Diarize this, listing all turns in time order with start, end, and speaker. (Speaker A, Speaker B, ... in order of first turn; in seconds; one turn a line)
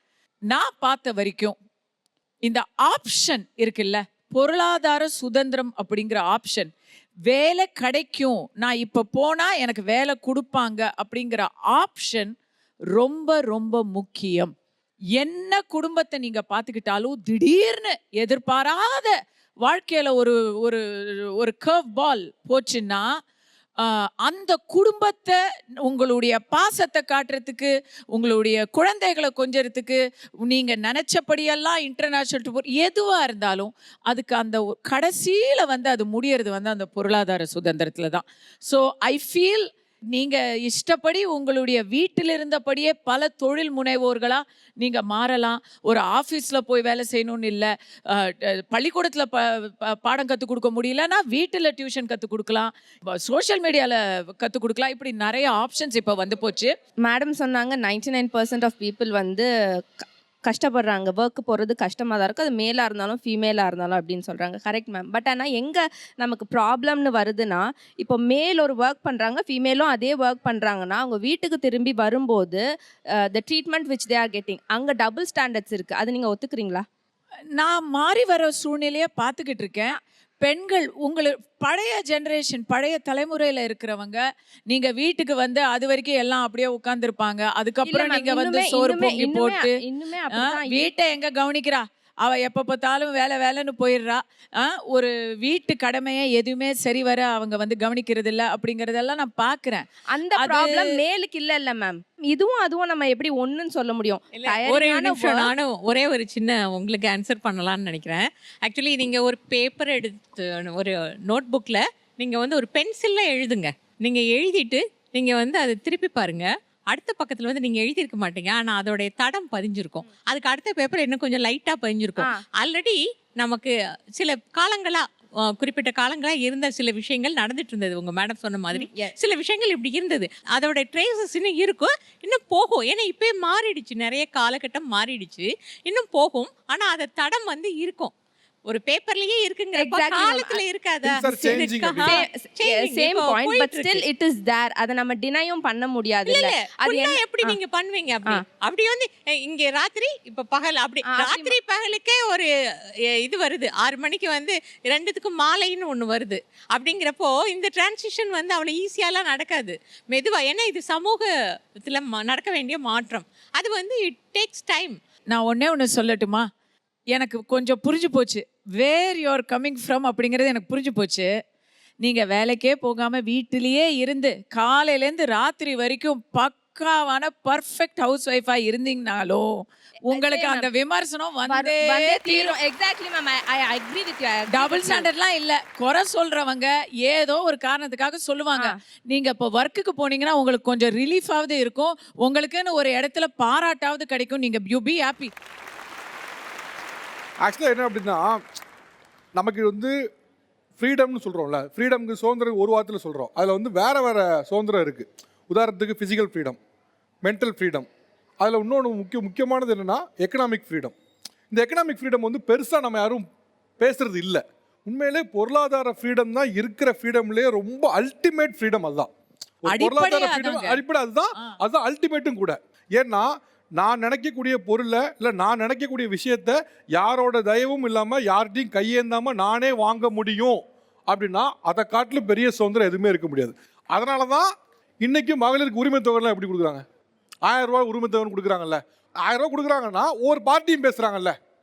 Speaker A: 0.5-1.6
Speaker A: 2.4-6.7
Speaker A: 7.2-12.3
Speaker A: 12.9-14.5
Speaker A: 15.2-23.1
Speaker A: 23.8-56.7
Speaker B: 57.0-72.6
Speaker B: 73.3-76.8
Speaker A: 77.5-89.8
Speaker B: 87.8-90.9
Speaker A: 90.3-99.8
Speaker B: 100.1-105.5
Speaker A: 100.4-100.8
Speaker C: 104.4-138.1
Speaker B: 128.7-129.1
Speaker C: 138.7-144.0
Speaker B: 139.8-140.6
Speaker D: 141.0-142.2
Speaker B: 141.4-147.6
Speaker C: 146.2-152.5
Speaker B: 151.0-151.6
Speaker C: 153.2-161.3
Speaker C: 161.8-164.9
Speaker A: 165.3-166.5
Speaker A: 167.1-171.3
Speaker A: 172.0-182.5
Speaker B: 180.1-180.7
Speaker B: 181.5-185.1
Speaker A: 184.5-195.3
Speaker D: 197.4-198.4
Speaker D: 199.3-199.9
Speaker D: 200.8-206.6
Speaker D: 207.2-207.9
Speaker D: 208.4-210.9
Speaker D: 211.5-213.2
Speaker D: 213.8-219.1
Speaker D: 219.7-234.5
Speaker A: 219.7-220.8
Speaker D: 235.0-236.8
Speaker D: 237.4-241.3